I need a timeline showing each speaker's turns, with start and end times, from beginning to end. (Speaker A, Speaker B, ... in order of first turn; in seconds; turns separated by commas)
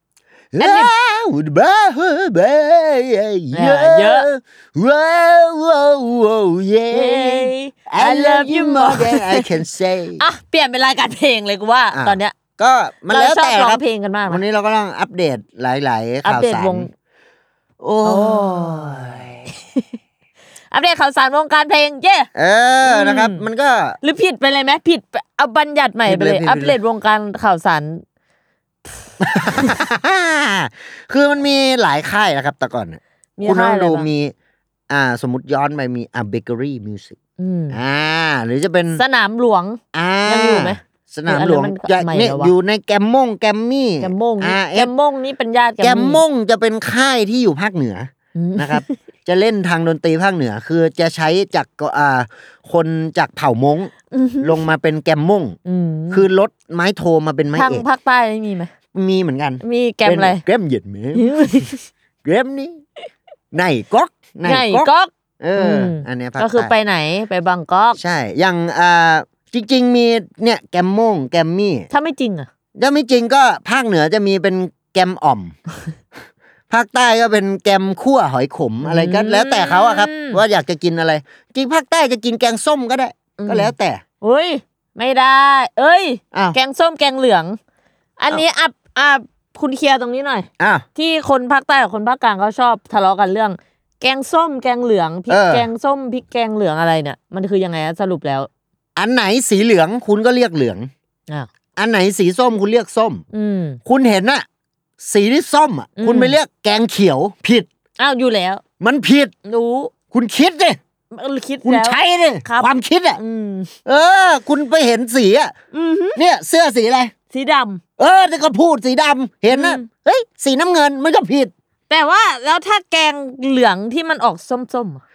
Speaker A: 0.5-10.2, Speaker B: 0.6-0.9, Speaker B: 3.5-4.3, Speaker B: 6.9-9.5, Speaker B: 10.2-12.3, Speaker A: 11.9-16.9, Speaker B: 13.1-14.4, Speaker B: 16.2-16.9, Speaker A: 17.8-19.5, Speaker B: 18.0-19.2, Speaker B: 20.7-22.3, Speaker A: 22.3-24.0, Speaker B: 22.8-23.4, Speaker B: 24.0-28.0, Speaker A: 26.0-26.8, Speaker A: 29.2-34.3, Speaker B: 33.4-34.1, Speaker A: 34.9-37.2, Speaker B: 37.4-37.8, Speaker A: 37.7-39.0, Speaker B: 38.9-42.5, Speaker A: 39.9-44.9, Speaker B: 44.0-46.2, Speaker A: 45.8-55.6, Speaker B: 48.3-49.0, Speaker B: 54.1-54.6, Speaker B: 55.6-56.2, Speaker A: 56.1-57.9, Speaker B: 57.5-58.7, Speaker A: 58.9-61.6, Speaker B: 59.6-60.4, Speaker B: 61.1-61.9, Speaker A: 62.2-62.8, Speaker A: 63.5-66.7, Speaker B: 64.4-68.0, Speaker A: 68.0-71.9, Speaker B: 71.9-72.5, Speaker A: 72.8-75.5, Speaker A: 76.7-84.0, Speaker B: 78.8-80.4, Speaker B: 83.4-87.6, Speaker B: 88.2-98.5, Speaker A: 90.6-90.8, Speaker A: 95.3-95.7, Speaker A: 99.0-100.9, Speaker A: 101.8-103.2, Speaker B: 103.3-103.8, Speaker A: 103.8-104.4, Speaker A: 105.0-107.7, Speaker B: 106.0-106.4, Speaker B: 108.0-108.6, Speaker A: 108.8-109.3, Speaker B: 109.5-109.9, Speaker A: 110.1-110.8, Speaker B: 111.1-113.7, Speaker A: 111.6-113.2, Speaker A: 113.8-115.5, Speaker B: 115.7-116.2, Speaker A: 116.2-117.1, Speaker B: 117.3-117.8, Speaker A: 118.0-121.5, Speaker B: 119.5-119.8, Speaker B: 121.9-125.0